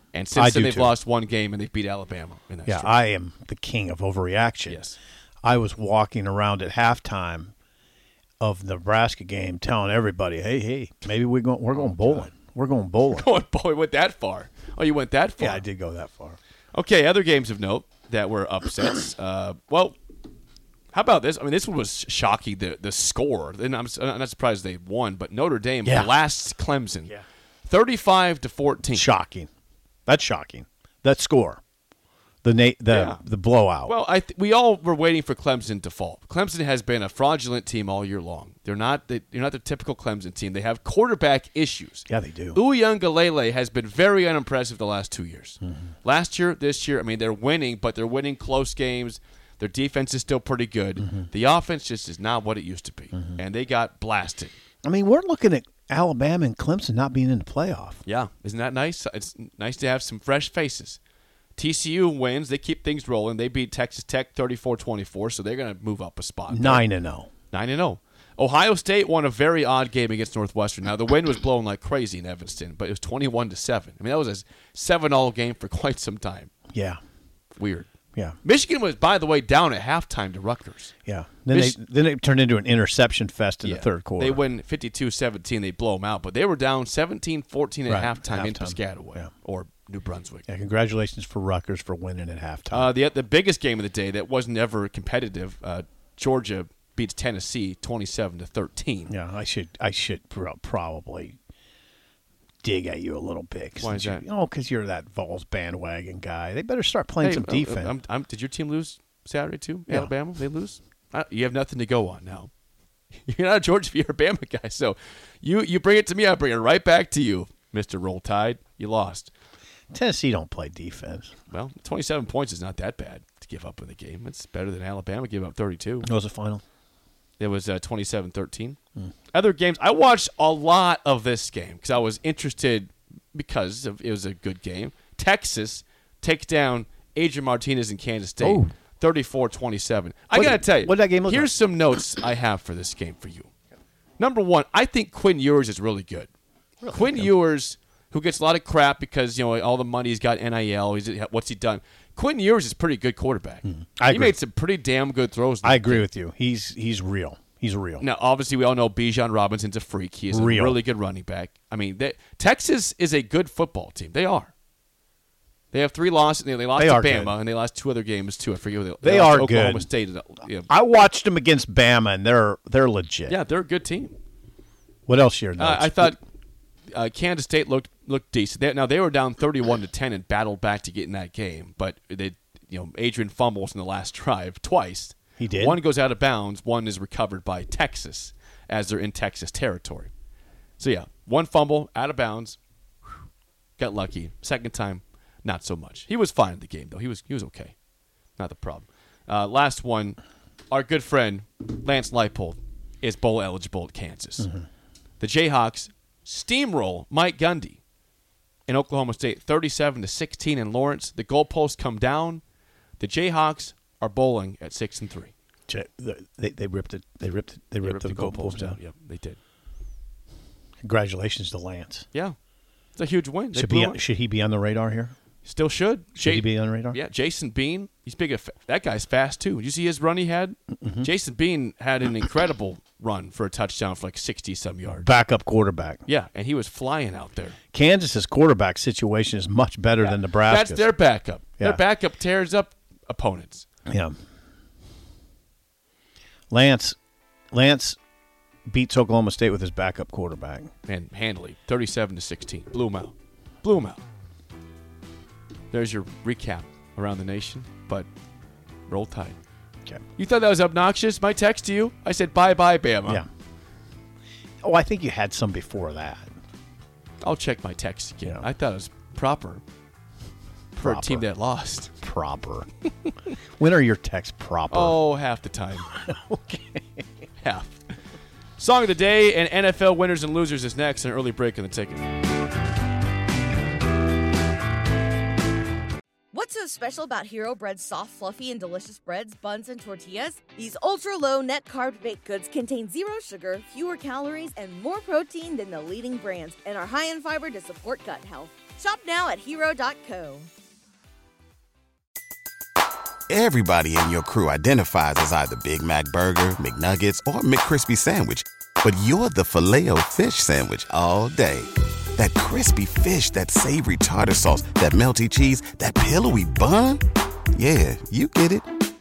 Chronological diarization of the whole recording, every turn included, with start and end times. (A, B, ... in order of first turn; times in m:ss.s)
0:00.1-0:02.9 A
0:00.3-0:00.9 B
0:02.6-0:04.8 B
0:04.6-0:05.0 A
0:05.4-0:07.5 B
0:08.4-0:13.3 B
0:11.7-0:12.3 A
0:13.1-0:15.6 A
0:15.4-0:16.4 B
0:16.7-0:20.0 A
0:20.9-0:27.1 A
0:25.8-0:26.2 B
0:27.7-0:29.0 A
0:28.8-0:29.5 B
0:30.1-0:31.6 B
0:32.4-0:33.9 B
0:32.9-0:33.2 A
0:33.8-0:54.5 A
0:42.1-0:42.6 B
0:54.8-0:58.0 B
0:58.0-1:01.0 A
1:01.6-1:06.8 A
1:06.5-1:07.3 B
1:07.5-1:16.5 A
1:16.7-1:17.0 B
1:17.5-1:17.9 A
1:18.4-1:20.9 A
1:21.0-1:24.4 B
1:21.5-1:21.8 A
1:23.6-1:30.4 A
1:27.8-1:29.3 B
1:30.5-1:32.9 B
1:32.7-1:39.1 A
1:39.1-1:41.4 B
1:42.6-1:48.0 B
1:43.8-1:44.2 A
1:47.2-1:52.5 A
1:53.2-1:59.3 A
1:59.9-2:01.3 B
2:01.5-2:06.1 A
2:06.0-2:06.6 B
2:07.4-2:08.8 A
2:09.3-2:23.5 A
2:18.4-2:18.7 B
2:20.3-2:21.5 B
2:24.2-2:26.3 A
2:26.8-2:27.3 B
2:26.9-2:36.0 A
2:33.6-2:34.4 B
2:35.6-2:38.0 B
2:38.0-2:44.5 A
2:40.3-2:40.8 B
2:45.7-2:50.7 A
2:46.8-2:47.3 B
2:49.0-2:49.9 B
2:50.7-2:53.4 B
2:53.3-2:54.2 A
2:55.1-2:56.2 B
2:55.6-2:56.2 A
2:56.9-3:10.1 A
3:05.4-3:05.8 B
3:10.8-3:12.6 A
3:13.8-3:17.7 A
3:18.4-3:20.2 A
3:20.7-3:24.5 A
3:25.2-3:27.8 A
3:28.7-3:32.4 A
3:33.0-3:35.3 A
3:35.7-3:38.8 B
3:37.8-3:39.4 A
3:40.8-3:42.0 B
3:43.0-3:44.0 A
3:43.5-3:45.1 B
3:45.4-3:55.1 A
3:46.2-3:47.0 B
3:50.8-3:51.1 B
3:54.9-3:56.0 B
3:56.1-3:57.6 A
3:57.7-4:00.9 B
4:00.0-4:03.6 A
4:03.9-4:04.1 B
4:06.5-4:07.0 B
4:07.5-4:08.0 B
4:08.7-4:10.7 B
4:10.8-4:14.0 A
4:15.7-4:18.1 A
4:18.9-4:19.4 A
4:20.2-4:23.2 A
4:24.6-4:26.3 B
4:27.2-4:29.6 A
4:30.8-4:31.2 B
4:30.8-4:31.9 A
4:32.0-4:32.7 B
4:33.6-4:35.0 B
4:34.7-4:35.9 A
4:35.9-4:37.0 B
4:37.4-4:37.8 A
4:38.6-4:42.1 A
4:46.3-5:00.5 C
5:03.3-5:17.0 D
5:17.5-5:18.7 D